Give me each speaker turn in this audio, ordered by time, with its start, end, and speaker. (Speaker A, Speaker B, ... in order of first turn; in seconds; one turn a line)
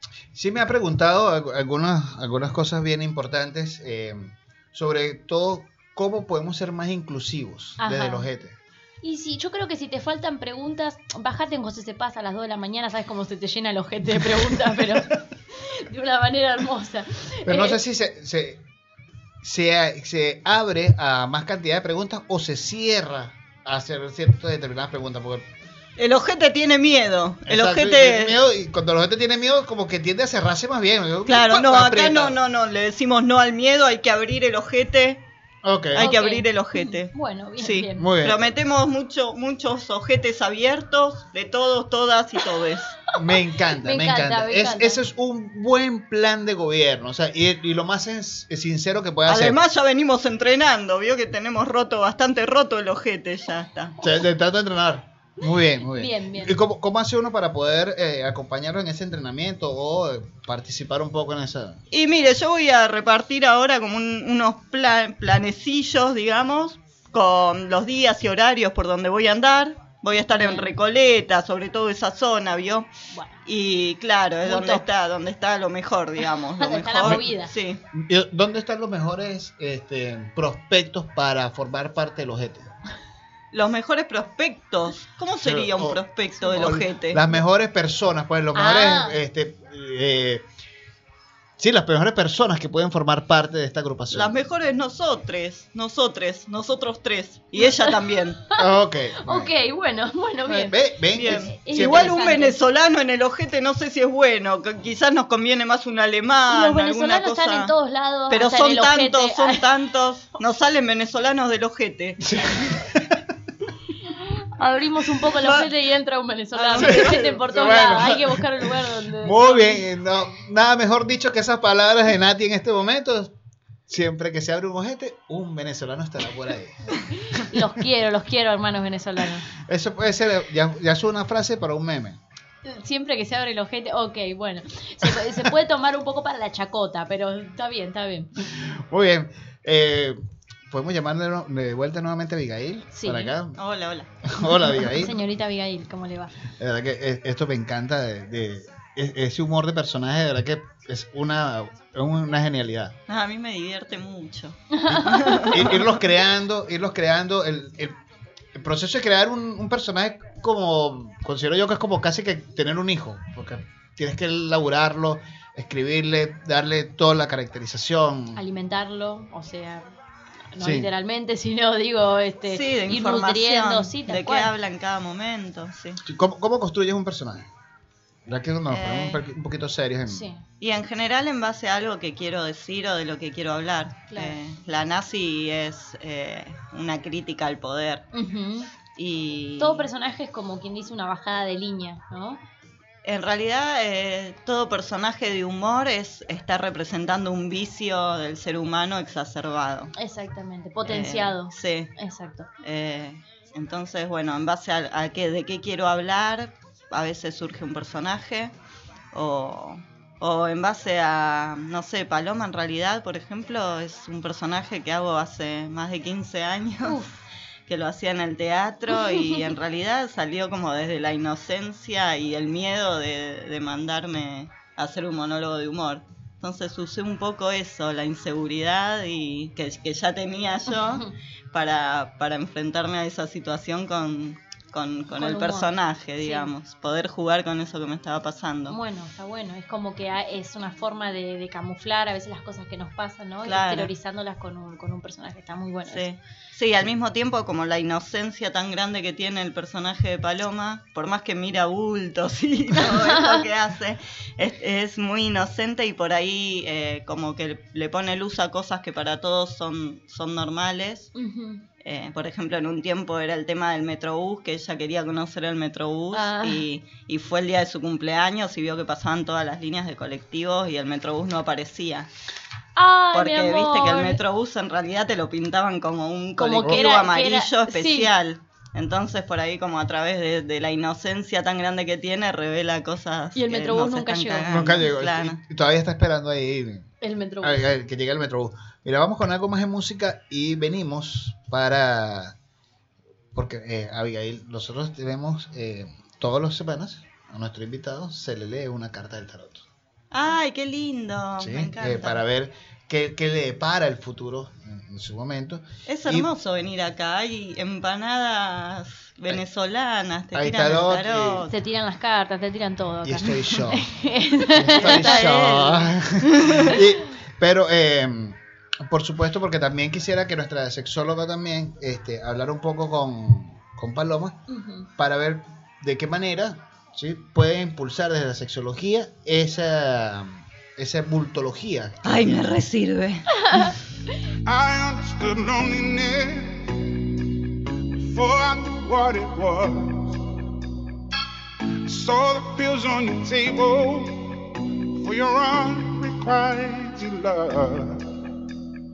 Speaker A: 0.3-8.6
Speaker B: 7.8-8.3
Speaker B: 9.0-17.8
Speaker A: 17.5-18.6
Speaker A: 19.4-25.5
Speaker C: 26.0-28.4
Speaker A: 27.5-32.4
Speaker C: 31.3-35.2
Speaker A: 35.6-36.1
Speaker C: 35.9-43.0
Speaker B: 36.0-38.1
Speaker A: 38.0-38.4
Speaker A: 43.1-49.6
Speaker B: 43.2-45.0
Speaker C: 49.3-54.0
Speaker A: 54.0-61.8
Speaker B: 55.8-56.6
Speaker C: 61.9-72.9
Speaker B: 70.3-70.7
Speaker B: 73.1-73.4
Speaker C: 73.5-77.8
Speaker B: 74.5-74.8
Speaker B: 76.6-77.5
Speaker A: 77.9-82.7
Speaker C: 83.5-87.2
Speaker A: 85.5-86.0
Speaker A: 86.6-90.4
Speaker B: 88.5-89.2
Speaker A: 91.6-94.3
Speaker C: 94.1-98.4
Speaker B: 97.6-98.7
Speaker A: 98.5-99.5
Speaker B: 99.2-102.6
Speaker A: 100.5-102.2
Speaker C: 101.1-107.7
Speaker B: 106.5-109.7
Speaker C: 108.3-112.2
Speaker A: 112.2-113.2
Speaker B: 114.6-119.8
Speaker C: 115.4-115.7
Speaker C: 116.5-117.3
Speaker A: 116.8-123.3
Speaker A: 123.9-127.6
Speaker B: 127.3-129.5
Speaker A: 129.6-132.2
Speaker B: 132.7-138.3
Speaker A: 138.5-140.2
Speaker A: 140.7-143.6
Speaker B: 143.0-143.3
Speaker C: 143.6-144.1
Speaker A: 144.2-145.2
Speaker B: 144.6-146.3
Speaker A: 146.6-153.0
Speaker C: 153.1-155.6
Speaker B: 154.7-155.8
Speaker A: 154.9-158.0
Speaker A: 158.6-168.4
Speaker B: 168.4-169.9
Speaker B: 170.5-174.5
Speaker A: 170.6-170.9
Speaker C: 172.5-176.0
Speaker A: 176.0-177.5
Speaker A: 178.3-180.2
Speaker C: 178.7-179.2
Speaker B: 180.1-180.4
Speaker C: 180.6-188.0
Speaker B: 184.1-184.4
Speaker B: 188.1-188.7
Speaker C: 188.9-189.9
Speaker B: 189.6-192.4
Speaker C: 193.0-199.9
Speaker B: 200.0-202.5
Speaker C: 200.8-201.9
Speaker C: 202.6-208.5
Speaker C: 209.1-217.0
Speaker B: 216.8-217.2
Speaker C: 217.7-238.8
Speaker B: 219.1-219.4
Speaker B: 235.1-236.5
Speaker B: 238.7-246.1
Speaker C: 243.4-243.9
Speaker C: 245.9-261.1
Speaker B: 252.8-253.4
Speaker B: 261.1-261.6
Speaker C: 261.8-272.1
Speaker B: 266.1-266.7
Speaker B: 272.8-274.2
Speaker C: 273.1-285.4
Speaker B: 276.4-278.1
Speaker B: 283.4-284.8
Speaker A: 284.5-286.9
Speaker B: 287.0-287.7
Speaker A: 287.4-292.4
Speaker A: 293.3-299.7
Speaker C: 300.1-302.2
Speaker A: 301.4-306.3
Speaker C: 305.9-311.5
Speaker A: 310.3-311.5
Speaker B: 311.5-315.9
Speaker A: 313.0-313.9
Speaker A: 314.5-324.4
Speaker C: 314.9-315.3
Speaker B: 316.6-316.8
Speaker B: 324.5-324.9
Speaker A: 325.0-332.0
Speaker C: 332.0-333.4
Speaker B: 333.4-333.8
Speaker D: 334.5-336.8
Speaker D: 338.0-340.1
Speaker D: 341.9-344.2
Speaker D: 345.0-348.1